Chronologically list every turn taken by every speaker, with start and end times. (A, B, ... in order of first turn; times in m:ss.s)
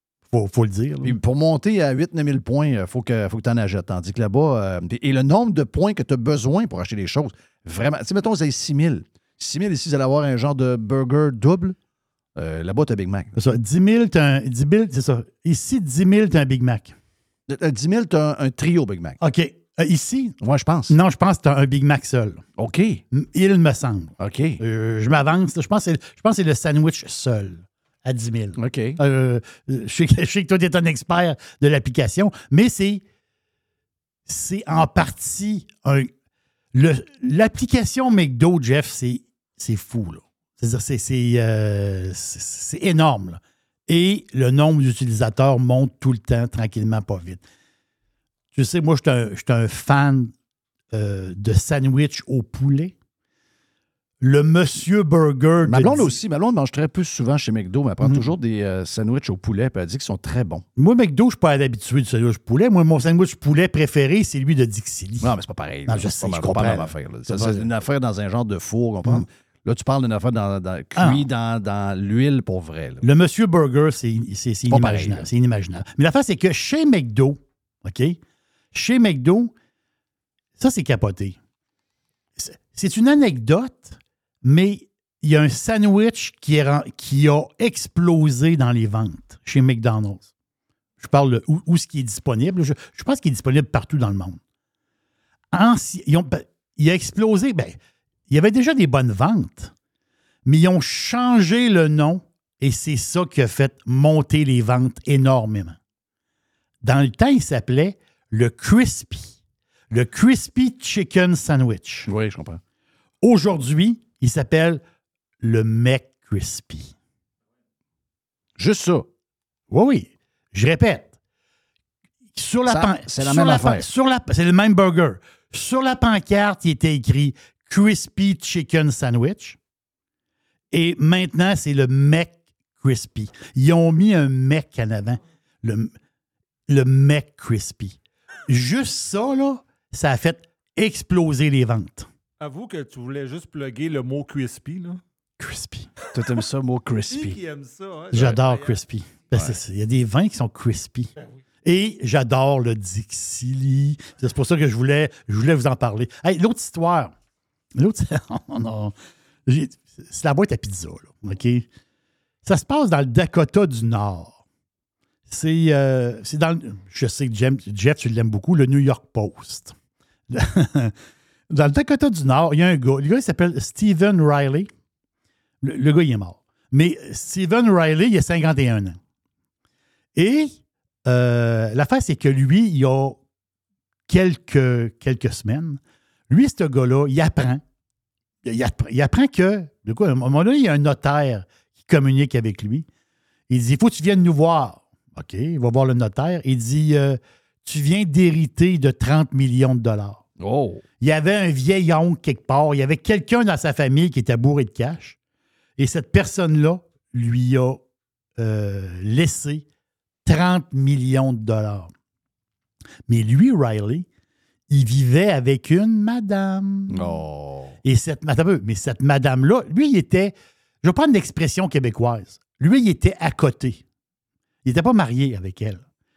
0:00.3-0:01.2 A
0:01.0-0:11.8 B
0:12.4-0:13.3 B
0:13.3-0:16.9 A
0:17.5-0:19.2 B
0:19.2-0:20.4 A
0:20.4-0:20.9 B
0:20.9-0:22.4 A
0:22.6-0:23.0 B
0:23.1-0:33.0 A
0:24.2-0:24.6 B
0:28.6-0:29.0 B
0:34.3-0:36.1 A
0:36.7-0:47.4 A
0:48.5-0:50.3 A
0:50.9-0:52.9 A
0:54.2-0:56.2 A
0:55.6-1:00.6 B
0:58.0-0:58.3 A
1:00.8-1:05.3 A
1:05.2-1:13.0 B
1:05.9-1:07.7 A
1:11.0-1:11.2 A
1:13.0-1:18.2 A
1:14.7-1:15.3 B
1:18.7-1:19.5 A
1:20.6-1:21.4 A
1:22.4-1:30.3 A
1:31.0-1:34.4 A
1:35.5-1:37.8 A
1:38.3-1:39.7 A
1:40.4-1:45.8 A
1:46.8-1:49.4 A
1:49.9-1:52.1 A
1:52.1-1:52.6 B
1:53.2-1:54.8 A
1:55.4-1:56.9 A
1:58.6-1:59.1 B
1:59.7-2:01.1 A
2:02.3-2:09.6 A
2:02.6-2:03.8 B
2:10.7-2:15.9 A
2:16.7-2:18.0 A
2:18.5-2:22.1 A
2:22.4-2:25.0 C
2:25.4-2:25.9 A
2:26.1-2:27.4 B
2:27.1-2:28.8 C
2:28.1-2:31.1 A
2:31.6-2:37.1 A
2:37.8-2:38.9 A
2:39.4-2:41.6 A
2:42.4-2:44.4 A
2:45.3-2:49.7 A
2:50.3-2:50.9 A
2:51.5-2:54.7 A
2:55.6-2:59.0 A
3:00.2-3:03.2 A
3:04.1-3:07.6 A
3:08.4-3:12.9 A
3:13.5-3:20.2 A
3:20.4-3:20.8 B
3:21.0-3:25.2 A
3:25.8-3:27.8 A
3:28.4-3:29.6 A
3:30.2-3:31.9 A
3:33.1-3:34.0 A
3:34.7-3:37.2 A
3:36.9-3:37.8 B
3:37.8-3:43.8 A
3:44.6-3:45.8 A